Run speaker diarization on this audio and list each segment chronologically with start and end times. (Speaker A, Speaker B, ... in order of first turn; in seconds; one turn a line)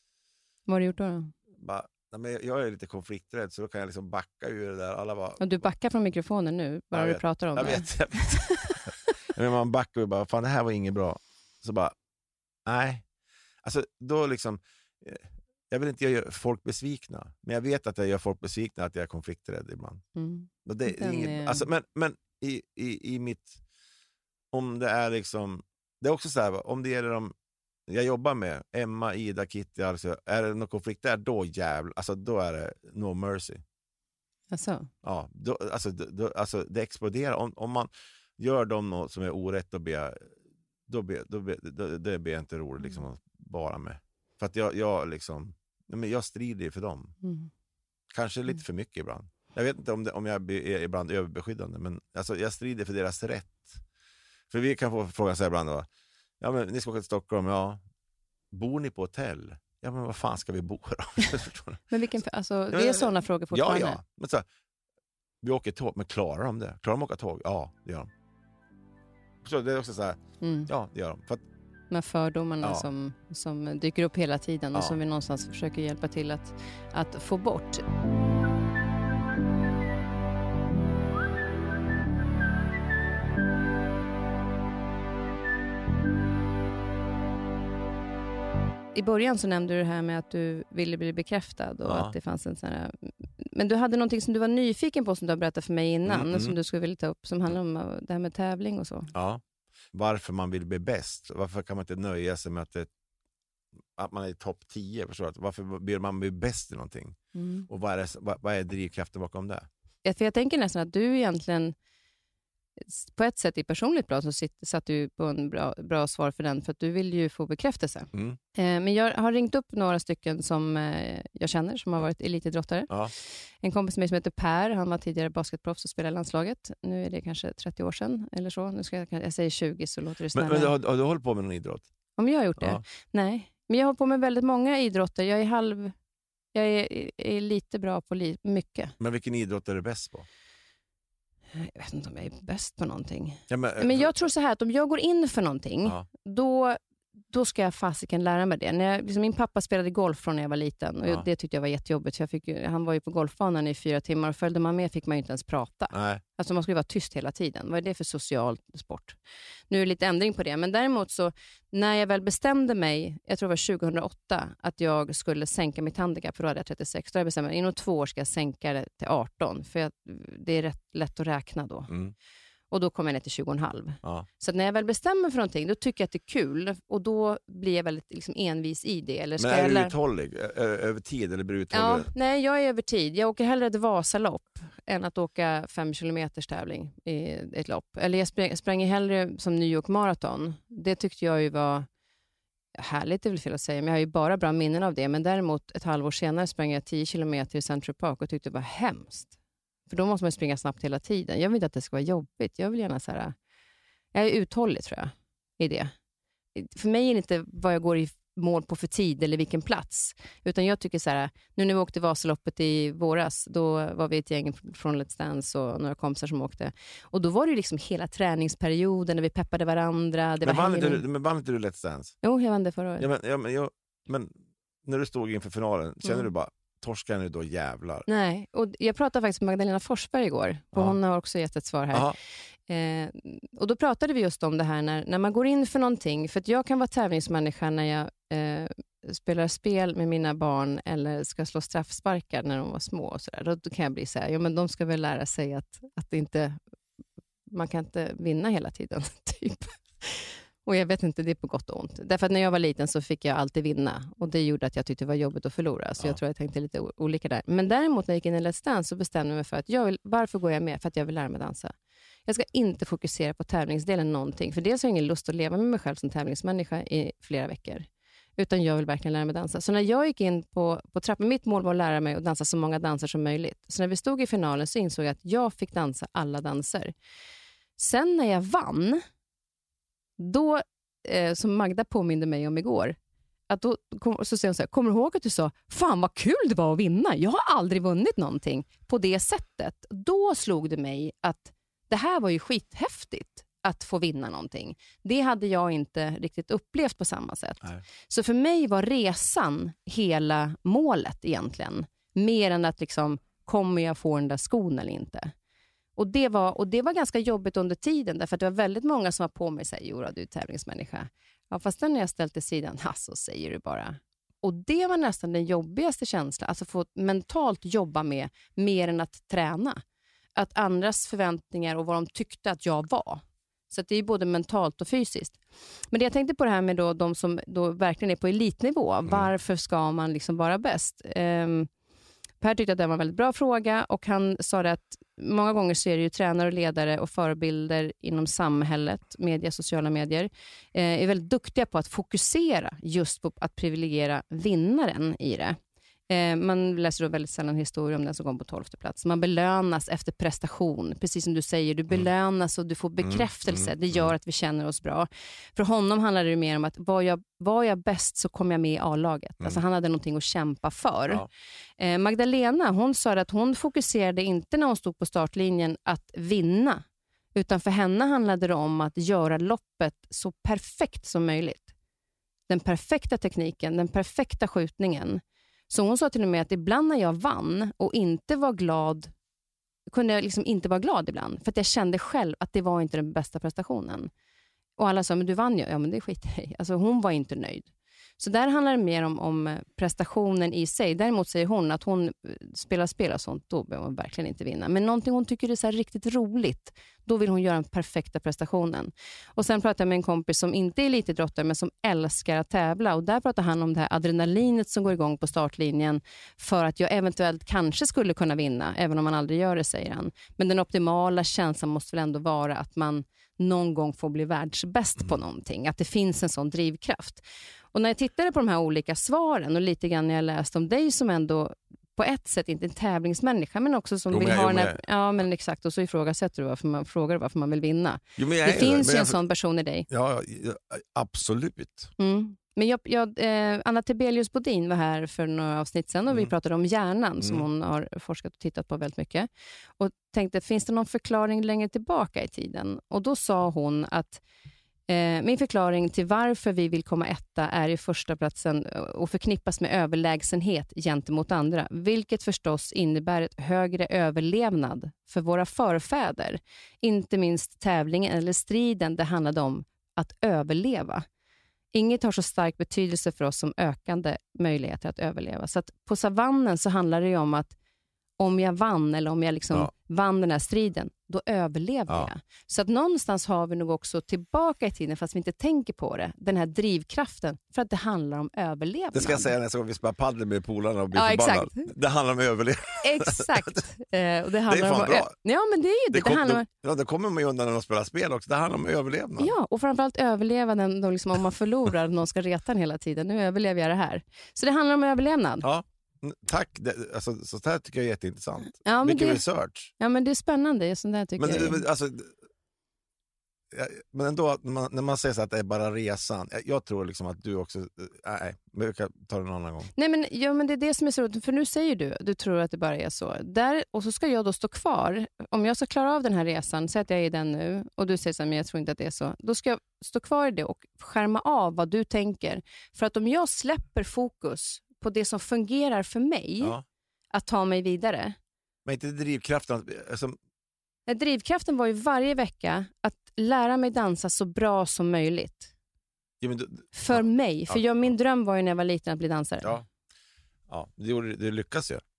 Speaker A: 0.7-1.3
Speaker B: 1.5-5.6
Speaker A: 5.4-8.8
Speaker B: 6.9-11.9
Speaker B: 12.7-13.1
Speaker B: 13.6-20.0
Speaker A: 20.2-21.6
Speaker B: 20.6-23.6
Speaker B: 24.5-27.3
Speaker B: 27.9-33.6
Speaker A: 34.5-34.9
Speaker B: 35.0-40.3
Speaker B: 40.9-47.1
Speaker A: 47.2-47.5
Speaker B: 48.1-53.8
Speaker B: 54.5-55.9
Speaker B: 56.4-57.8
Speaker B: 58.5-61.9
Speaker A: 61.9-64.0
Speaker B: 62.7-64.5
Speaker B: 65.4-68.1
Speaker B: 69.4-71.5
Speaker A: 70.4-70.7
Speaker A: 71.9-77.8
Speaker B: 72.6-72.9
Speaker A: 88.9-99.1
Speaker B: 91.9-92.1
Speaker B: 96.1-96.6
Speaker B: 99.1-102.9
Speaker B: 104.0-109.7
Speaker A: 107.3-107.7
Speaker A: 110.0-111.8
Speaker A: 112.8-130.7
Speaker B: 118.1-118.4
Speaker B: 130.3-131.9
Speaker A: 132.2-135.9
Speaker B: 132.6-132.8
Speaker A: 136.5-138.9
Speaker B: 139.0-140.3
Speaker A: 141.6-171.9
Speaker B: 143.5-144.2
Speaker B: 155.9-156.2
Speaker B: 171.9-172.1
Speaker A: 172.7-179.9
Speaker B: 179.4-182.1
Speaker A: 181.7-191.9
Speaker A: 192.8-199.3
Speaker A: 199.9-203.3
Speaker A: 204.1-205.9
Speaker A: 206.6-221.0
Speaker B: 220.4-222.2
Speaker A: 222.2-223.1
Speaker B: 223.0-224.3
Speaker B: 224.8-228.1
Speaker A: 228.1-232.1
Speaker A: 232.7-246.6
Speaker A: 247.5-261.8
Speaker A: 262.3-276.9
Speaker A: 277.8-279.0
Speaker A: 280.2-283.0
Speaker A: 283.5-305.3
Speaker A: 306.0-319.8
Speaker A: 320.4-325.4
Speaker A: 325.9-331.7
Speaker A: 332.4-345.6
Speaker A: 346.1-361.3
Speaker B: 353.0-354.1
Speaker A: 361.8-371.7
Speaker A: 372.5-379.1
Speaker A: 379.9-384.1
Speaker A: 384.8-429.9
Speaker B: 424.1-424.8
Speaker B: 428.2-429.2
Speaker B: 429.9-431.9
Speaker A: 432.0-444.2
Speaker A: 444.9-461.1
Speaker A: 461.7-467.6
Speaker A: 468.2-479.3
Speaker B: 478.9-483.6
Speaker A: 480.9-481.7
Speaker A: 482.8-486.5
Speaker B: 484.5-485.1
Speaker B: 485.9-489.3
Speaker A: 489.2-495.5
Speaker B: 495.4-499.7
Speaker A: 498.6-499.2
Speaker A: 499.8-501.6
Speaker B: 501.2-502.2
Speaker B: 503.5-509.7
Speaker A: 509.8-526.6
Speaker A: 527.1-528.2
Speaker B: 528.6-530.2
Speaker A: 530.9-535.5
Speaker B: 536.2-537.9
Speaker A: 536.7-539.6
Speaker B: 540.5-541.8